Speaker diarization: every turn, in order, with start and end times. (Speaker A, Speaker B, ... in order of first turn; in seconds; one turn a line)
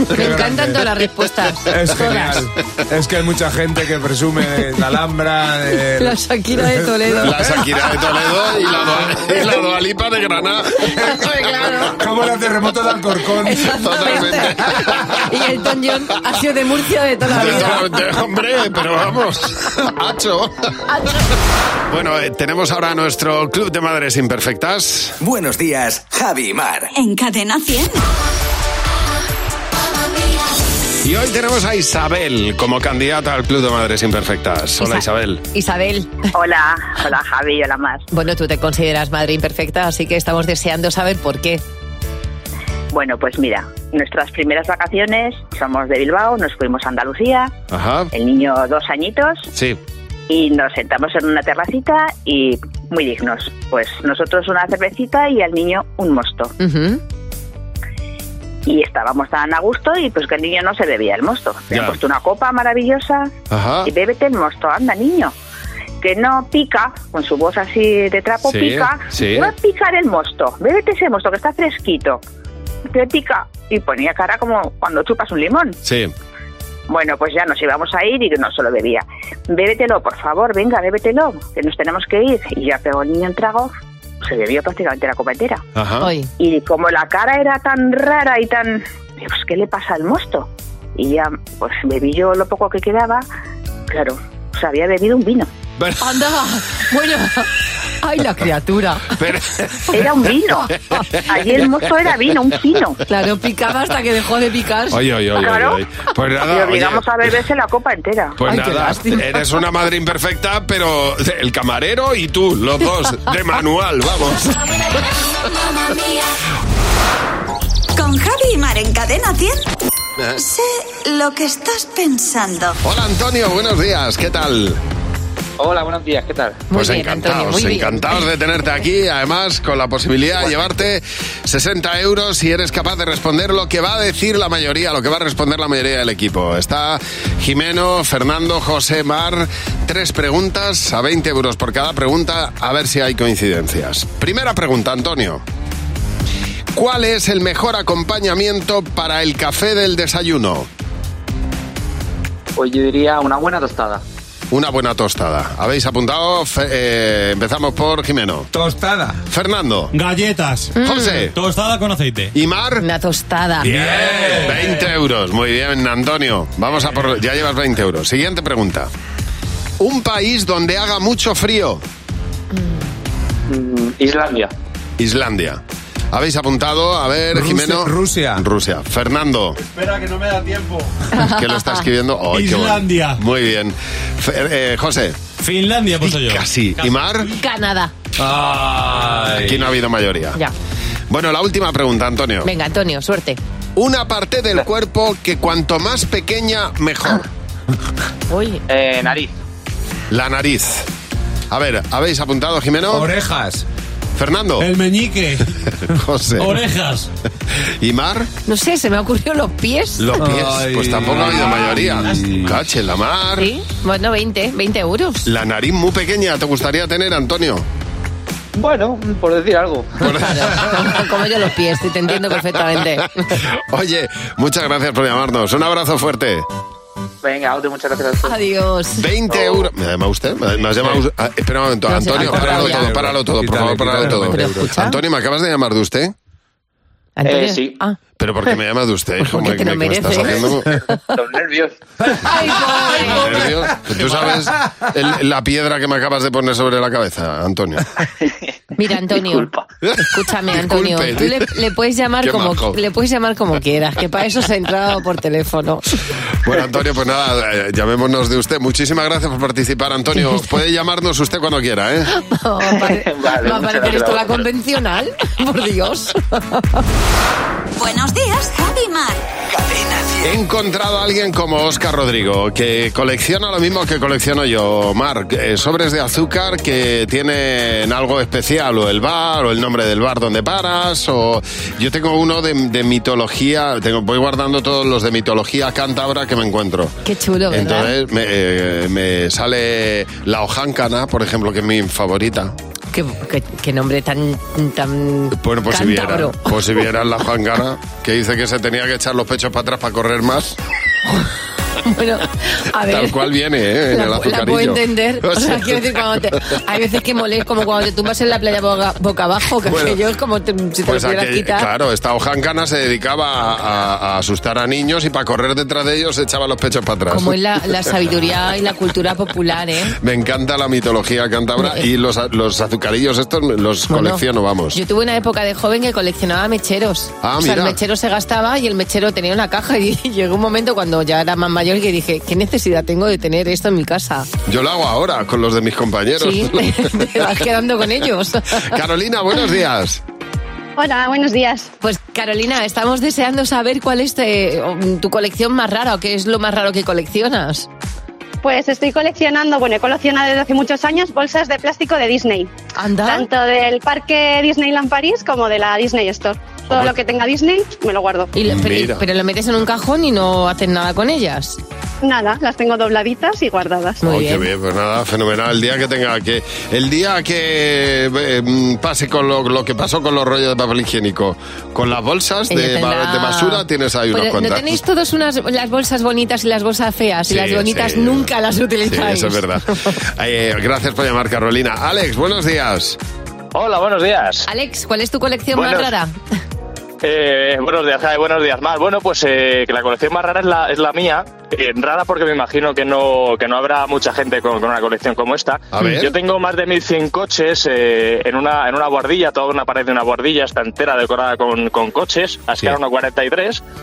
Speaker A: 0.1-0.8
Speaker B: 0.1-2.4
Speaker A: 1.7-7.5
Speaker B: 6.0-7.6
Speaker C: 7.2-10.9
Speaker B: 11.0-12.0
Speaker A: 11.9-13.7
Speaker B: 13.4-18.0
Speaker C: 13.7-15.0
Speaker C: 17.3-20.7
Speaker B: 20.9-21.2
Speaker C: 21.9-25.1
Speaker D: 25.2-26.9
Speaker E: 26.9-28.0
Speaker C: 31.0-35.4
Speaker B: 34.8-36.2
Speaker F: 36.3-38.0
Speaker B: 38.1-41.6
Speaker F: 42.9-47.5
Speaker C: 47.7-48.1
Speaker F: 48.1-49.5
Speaker C: 49.5-49.8
Speaker F: 50.3-56.5
Speaker B: 56.6-57.0
Speaker F: 58.6-65.3
Speaker C: 61.7-62.0
Speaker C: 63.5-63.9
Speaker F: 66.0-72.2
Speaker C: 68.4-69.5
Speaker F: 72.9-75.8
Speaker C: 75.8-76.1
Speaker F: 76.9-85.6
Speaker C: 85.8-86.1
Speaker B: 86.0-86.3
Speaker F: 86.4-93.2
Speaker F: 93.9-95.5
Speaker B: 96.0-97.5
Speaker B: 98.0-99.2
Speaker C: 99.2-99.7
Speaker F: 99.9-100.7
Speaker F: 101.3-103.0
Speaker B: 103.1-105.0
Speaker C: 104.9-107.2
Speaker F: 105.3-105.8
Speaker F: 106.4-108.4
Speaker C: 108.4-114.4
Speaker B: 108.4-109.4
Speaker E: 118.0-119.7
Speaker E: 120.4-122.8
Speaker C: 122.8-124.8
Speaker G: 125.6-126.6
Speaker B: 126.7-128.2
Speaker C: 126.7-145.4
Speaker C: 146.7-150.7
Speaker G: 152.6-154.0
Speaker C: 154.5-158.5
Speaker A: 158.5-159.2
Speaker C: 159.2-159.9
Speaker H: 159.9-160.7
Speaker B: 160.8-161.3
Speaker C: 160.8-161.3
Speaker H: 161.3-162.3
Speaker C: 162.3-162.8
Speaker B: 162.8-163.7
Speaker C: 163.7-168.9
Speaker A: 163.7-164.5
Speaker C: 169.8-171.8
Speaker G: 173.5-174.5
Speaker C: 175.0-179.6
Speaker A: 177.3-178.4
Speaker I: 179.7-180.9
Speaker B: 181.1-181.8
Speaker C: 181.2-185.2
Speaker H: 182.3-183.1
Speaker H: 185.4-186.4
Speaker C: 186.0-187.3
Speaker B: 187.3-187.9
Speaker C: 189.4-190.4
Speaker C: 191.1-192.5
Speaker B: 192.4-193.4
Speaker C: 193.8-197.2
Speaker B: 198.3-198.6
Speaker G: 198.7-199.3
Speaker C: 200.1-200.8
Speaker C: 201.5-203.1
Speaker A: 203.0-203.6
Speaker C: 204.2-204.7
Speaker I: 204.6-205.5
Speaker C: 205.8-206.5
Speaker I: 206.4-206.9
Speaker C: 207.8-208.3
Speaker B: 208.4-210.2
Speaker C: 210.0-213.5
Speaker A: 210.3-210.9
Speaker B: 213.4-215.2
Speaker C: 215.2-217.6
Speaker G: 218.5-219.9
Speaker C: 220.0-220.7
Speaker B: 220.0-223.3
Speaker C: 223.4-226.4
Speaker G: 227.2-228.4
Speaker B: 228.2-229.1
Speaker C: 228.9-236.1
Speaker B: 231.9-232.9
Speaker A: 232.1-234.9
Speaker B: 234.2-234.7
Speaker B: 237.2-237.9
Speaker G: 237.2-237.8
Speaker C: 238.2-240.7
Speaker B: 239.3-240.9
Speaker G: 241.1-241.8
Speaker B: 242.2-243.6
Speaker C: 243.0-247.8
Speaker B: 248.8-255.9
Speaker G: 249.1-249.6
Speaker C: 249.9-251.5
Speaker C: 252.2-252.8
Speaker C: 256.4-262.1
Speaker B: 262.1-266.8
Speaker G: 262.8-264.4
Speaker E: 267.8-269.2
Speaker D: 269.5-270.4
Speaker C: 270.2-286.9
Speaker B: 287.0-287.9
Speaker C: 287.5-292.5
Speaker B: 292.9-296.5
Speaker C: 295.3-300.6
Speaker B: 301.8-303.3
Speaker C: 302.8-306.2
Speaker B: 303.9-311.7
Speaker C: 309.6-310.0
Speaker C: 310.9-317.4
Speaker B: 317.1-319.9
Speaker C: 320.0-324.8
Speaker B: 321.6-321.8
Speaker B: 323.9-334.3
Speaker C: 327.2-327.8
Speaker C: 334.5-336.9
Speaker B: 336.2-338.8
Speaker C: 338.6-340.0
Speaker J: 340.8-341.7
Speaker B: 341.8-347.7
Speaker J: 348.4-352.5
Speaker B: 352.8-353.2
Speaker J: 353.0-358.3
Speaker B: 358.3-361.6
Speaker C: 358.4-359.0
Speaker J: 362.0-364.0
Speaker B: 364.0-364.5
Speaker C: 364.0-374.8
Speaker B: 372.5-379.9
Speaker C: 377.3-378.3
Speaker C: 378.8-383.0
Speaker K: 383.5-384.5
Speaker B: 384.4-386.1
Speaker K: 385.5-385.9
Speaker K: 387.0-403.6
Speaker C: 395.7-396.1